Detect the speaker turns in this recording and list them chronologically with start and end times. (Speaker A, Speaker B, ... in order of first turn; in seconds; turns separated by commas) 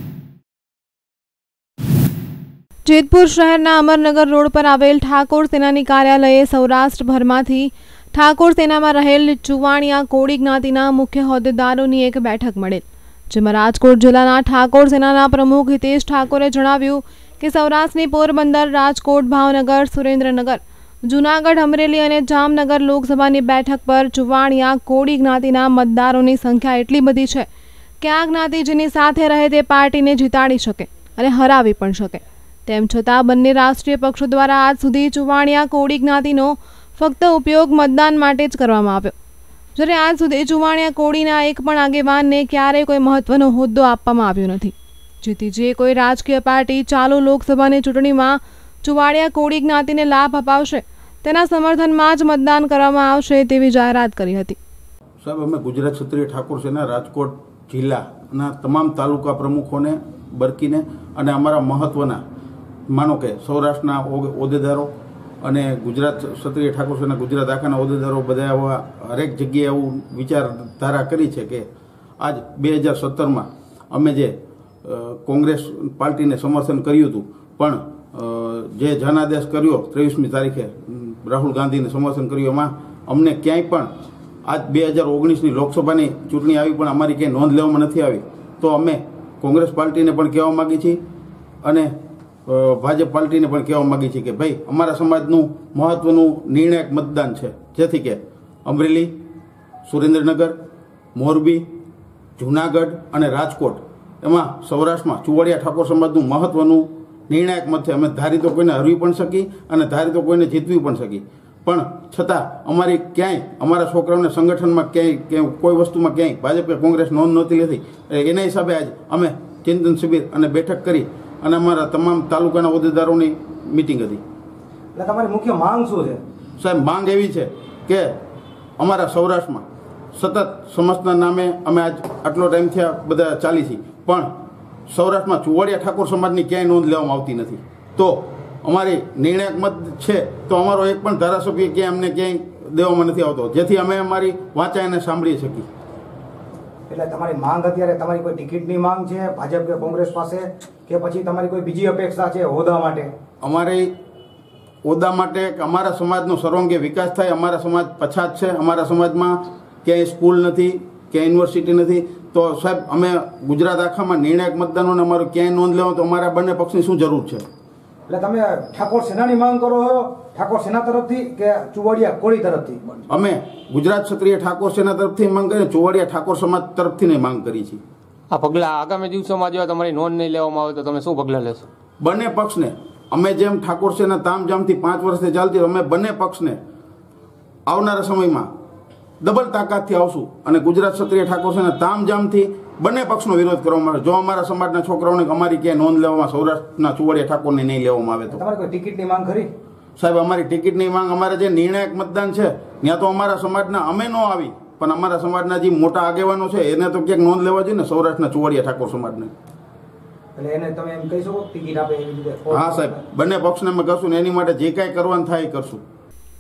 Speaker A: 2.9-27.5, Speaker A: 28.0-39.1, Speaker A: 39.8-54.6, Speaker B: 55.2-62.2, Speaker B: 62.9-64.9, Speaker B: 65.4-71.7, Speaker B: 72.2-83.9, Speaker B: 84.5-91.0, Speaker B: 91.6-91.9, Speaker B: 92.5-99.1, Speaker B: 99.8-100.6, Speaker B: 101.2-101.7, Speaker B: 102.4-124.2, Speaker C: 125.0-126.2, Speaker B: 126.6-128.1, Speaker B: 128.8-134.3, Speaker B: 134.9-145.7, Speaker C: 146.9-153.1, Speaker B: 153.4-153.9, Speaker B: 154.8-167.4, Speaker C: 168.1-173.1, Speaker B: 173.1-177.8, Speaker D: 178.3-181.7, Speaker B: 182.0-186.6, Speaker B: 187.7-188.5, Speaker B: 189.2-198.4, Speaker C: 198.3-199.5, Speaker B: 200.0-209.3, Speaker C: 210.4-213.0, Speaker B: 212.5-215.8